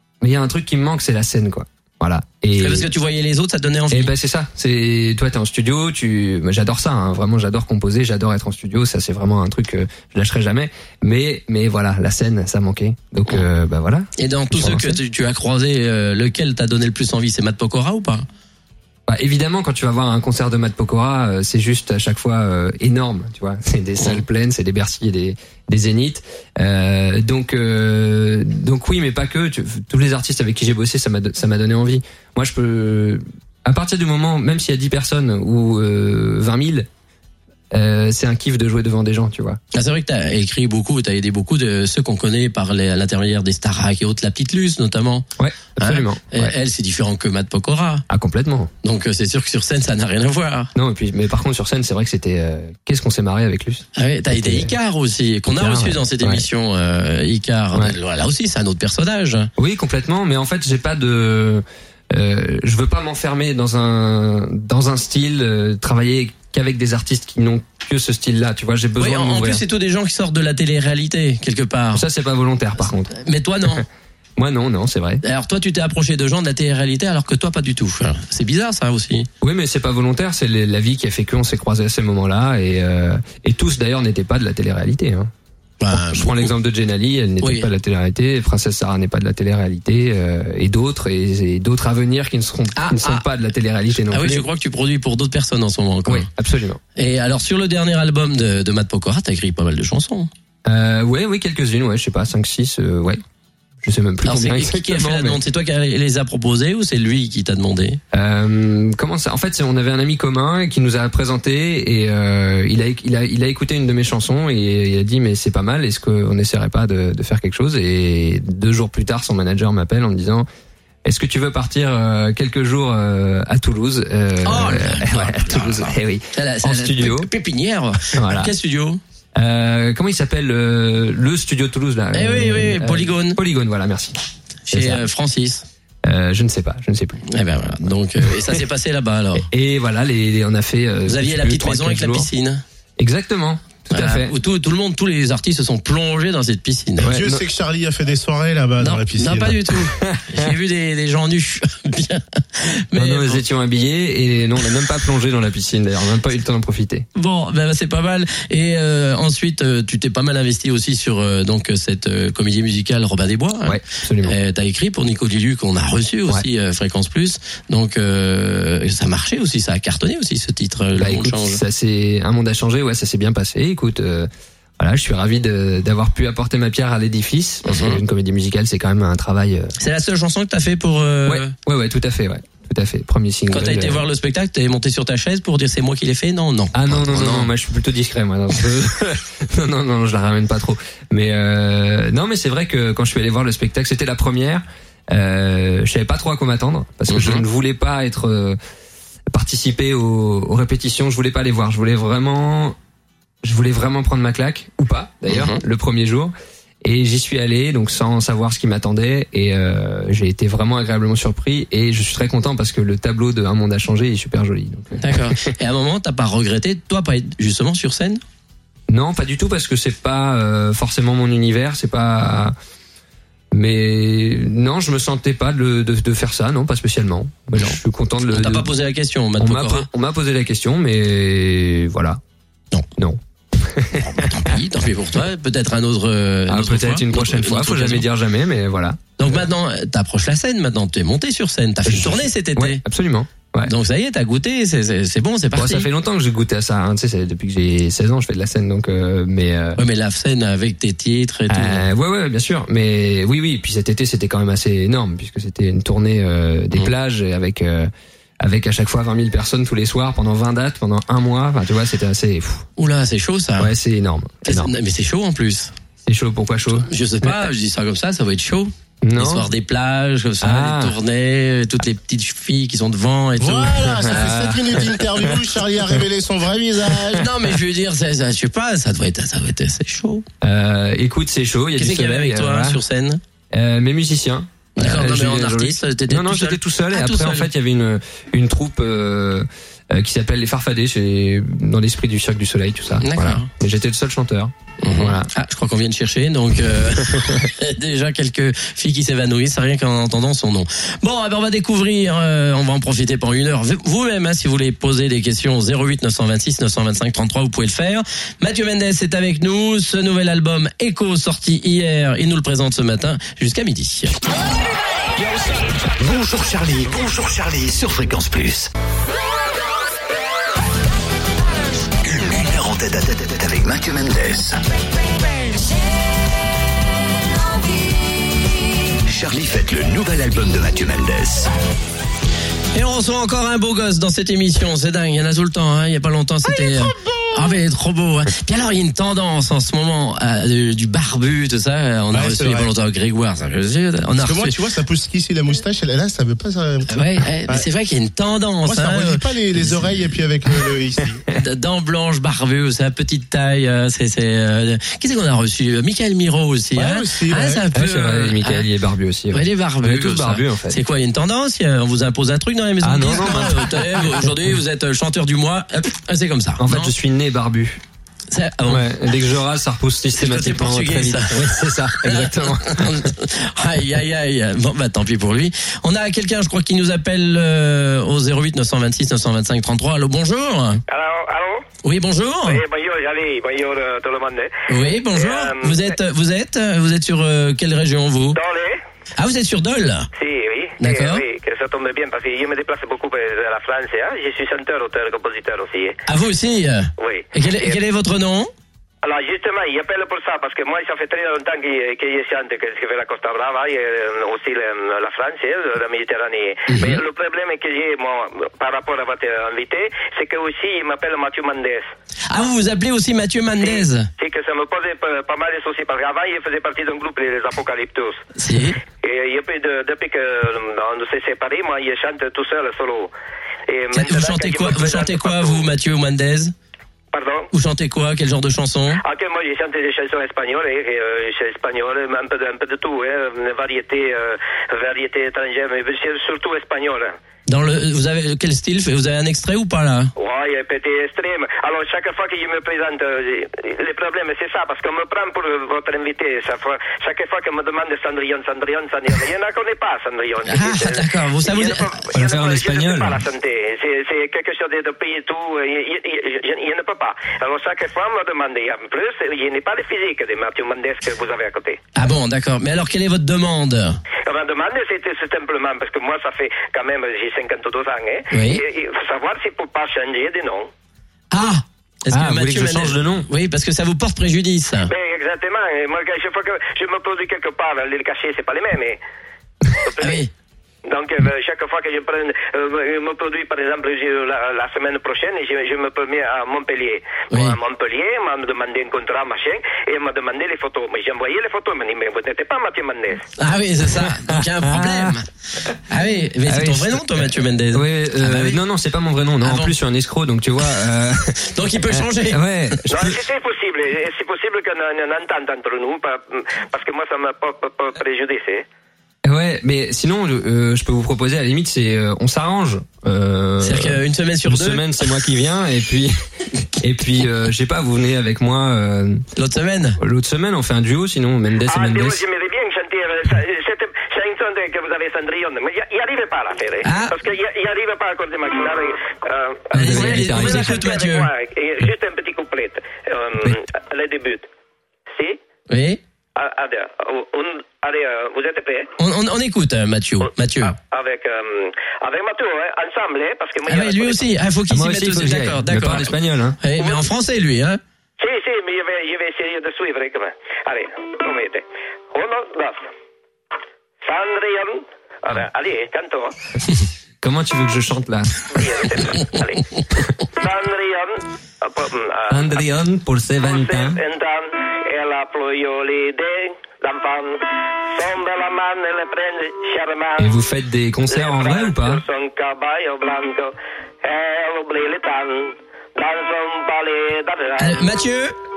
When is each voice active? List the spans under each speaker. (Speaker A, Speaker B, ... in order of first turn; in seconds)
Speaker A: 0.2-2.9, 3.9-15.0, 19.1-36.9, 37.7-39.6, 45.4-46.5, 48.1-48.7, 50.8-54.7, 55.5-56.4, 59.6-69.6, 71.9-73.1, 74.4-75.2, 79.4-85.3, 85.9-94.5, 96.1-96.8, 100.7-103.2, 103.8-105.4, 108.1-120.5, 121.0-127.3, 128.1-128.5, 129.3-135.0, 136.0-137.3, 138.2-138.6, 139.4-142.3, 143.0-144.4, 147.0-147.4, 150.0-150.5, 152.9-157.1, 163.7-164.4, 171.0-179.8, 181.3-184.0, 186.7-198.6, 199.3-202.8, 203.4-215.5, 218.9-222.6, 223.5-228.7, 229.4-232.2, 233.0-234.6, 236.5-239.4, 241.8-243.7, 245.6-249.8, 251.5-257.9, 258.4-262.7, 263.6-264.7, 266.0-267.3, 269.0-269.5, 270.4-271.0, 274.1-275.3, 280.4-282.8, 283.5-295.3, 297.0-297.5, 357.7-360.8, 362.8-364.3, 366.6-367.8, 368.6-373.1, 452.1-453.2, 472.1-473.3, 494.1-495.2, 496.5-503.2, 509.2-516.1, 516.8-519.3, 520.0-522.2, 529.7-530.8, 544.7-546.6, 557.2-558.8, 562.3-564.0, 570.2-572.0
Speaker B: 2.6-4.1, 14.2-18.3, 39.7-45.3, 45.8-48.0, 48.8-50.7, 54.0-59.5, 69.0-72.0, 73.1-73.8, 75.2-79.3, 85.8-86.5, 87.4-87.7, 92.8-93.2, 94.1-96.3, 97.0-100.3, 104.3-108.0, 124.4-129.0, 132.1-133.4, 134.7-135.7, 137.3-139.5, 141.1-142.6, 143.9-147.1, 148.8-153.4, 157.2-171.6, 177.7-178.0, 179.8-181.5, 183.5-187.5, 197.1-197.4, 205.3-205.6, 215.0-218.2, 228.3-229.9, 234.0-238.1, 239.2-242.8, 243.7-245.9, 249.8-251.8, 262.8-263.7, 264.5-265.7, 266.7-274.3, 277.2-280.3, 281.8-283.2, 284.8-287.5, 293.0-293.5, 294.8-314.2, 332.7-344.6, 346.9-350.2, 351.4-358.7, 359.3-366.9, 368.3-368.9, 370.2-380.8, 381.8-382.6, 384.7-388.4, 389.2-390.1, 390.8-391.2, 396.1-398.5, 406.7-407.0, 412.3-414.1, 418.4-418.8, 423.9-426.5, 427.5-429.0, 437.5-440.1, 450.5-452.0, 462.0-464.0, 468.3-468.6, 471.3-474.9, 480.0-480.3, 487.3-487.6, 493.4-495.3, 495.9-498.6, 499.4-499.7, 501.4-502.8, 513.6-514.9, 519.4-520.0, 526.8-527.1, 529.7-531.3, 535.7-536.0, 539.0-540.8, 543.7-547.8, 577.6-578.4
Speaker C: 147.1-149.8, 273.4-277.3, 336.4-337.6, 342.1-342.7, 344.2-346.9, 348.7-351.2, 356.8-357.7
Speaker D: 315.2-318.7, 322.0-324.6, 329.1-331.5
Speaker E: 380.9-381.7, 382.4-385.9, 388.3-388.8, 390.2-396.0, 397.0-397.8, 399.0-411.9, 413.6-418.2, 419.0-423.1, 423.7-425.7, 427.1-427.5, 429.0-437.1, 440.2-461.8, 464.2-470.7, 474.9-479.0, 479.7-480.2, 480.9-493.3, 502.9-508.6, 521.7-534.5, 535.1-535.4, 536.4-538.9, 540.6-544.2, 546.8-547.1, 548.2-552.8, 554.0-556.3, 558.5-559.7, 560.4-562.5, 563.4-570.3, 571.1-577.9